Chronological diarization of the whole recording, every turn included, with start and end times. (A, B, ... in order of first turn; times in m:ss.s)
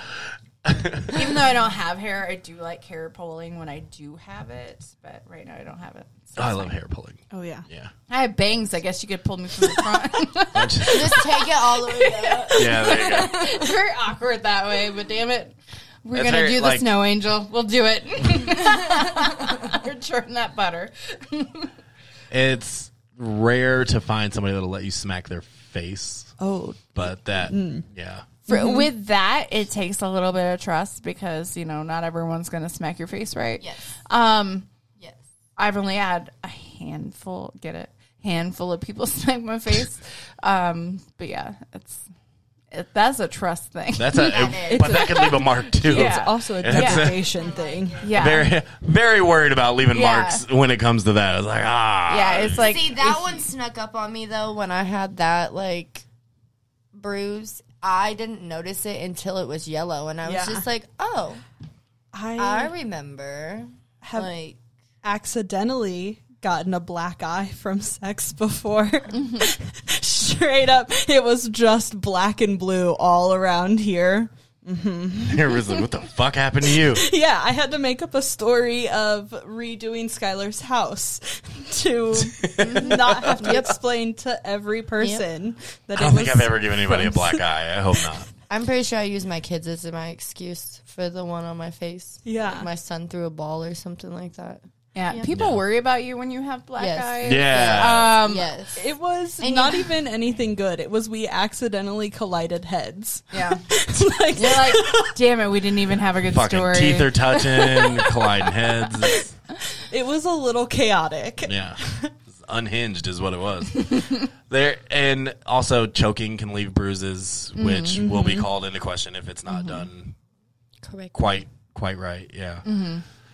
0:00.6-0:01.4 A
0:01.1-0:06.8 B
0:06.4-0:07.9 A
0:07.3-0:07.7 C
0:08.1-0:21.7 B
0:10.5-0:11.3 A
0:10.9-0:13.6 D
0:12.5-0:13.4 A
0:16.1-0:16.9 A
0:22.3-0:26.4 A
0:26.4-0:27.9 C
0:26.9-0:28.3 A
0:28.5-0:34.7 B
0:28.5-0:28.9 C
0:33.6-0:34.0 D
0:35.6-0:42.0 B
0:42.7-0:47.2 B
0:44.0-0:47.3 A
0:44.1-0:45.0 D
0:44.6-0:48.1 C
0:47.3-0:48.4 D
0:48.0-0:48.5 B
0:48.1-0:52.7 A
0:49.9-0:50.4 D
0:50.0-0:50.4 B
0:52.1-0:53.4 B
0:52.5-0:56.1 D
0:56.9-1:01.4 D
1:00.2-1:00.7 C
1:02.1-1:02.7 C
1:02.4-1:04.6 D
1:04.0-1:04.3 C
1:05.0-1:15.9 C
1:15.2-1:17.0 A
1:16.6-1:27.4 C
1:22.5-1:23.4 A
1:22.7-1:23.8 D
1:25.0-1:25.3 D
1:26.0-1:28.3 A
1:28.5-1:35.3 D
1:32.2-1:32.7 C
1:34.9-1:38.5 B
1:35.3-1:35.6 A
1:36.8-1:38.9 D
1:37.2-1:38.2 A
1:38.8-1:45.2 C
1:39.4-1:39.9 D
1:43.3-1:43.6 B
1:44.3-1:47.7 B
1:46.3-1:49.3 A
1:47.5-1:49.3 C
1:49.8-1:52.1 C
1:51.4-2:00.2 A
1:57.6-1:58.0 B
1:58.0-1:58.5 C
1:59.5-1:59.8 B
2:00.8-2:01.4 D
2:01.1-2:02.6 A
2:02.6-2:03.0 B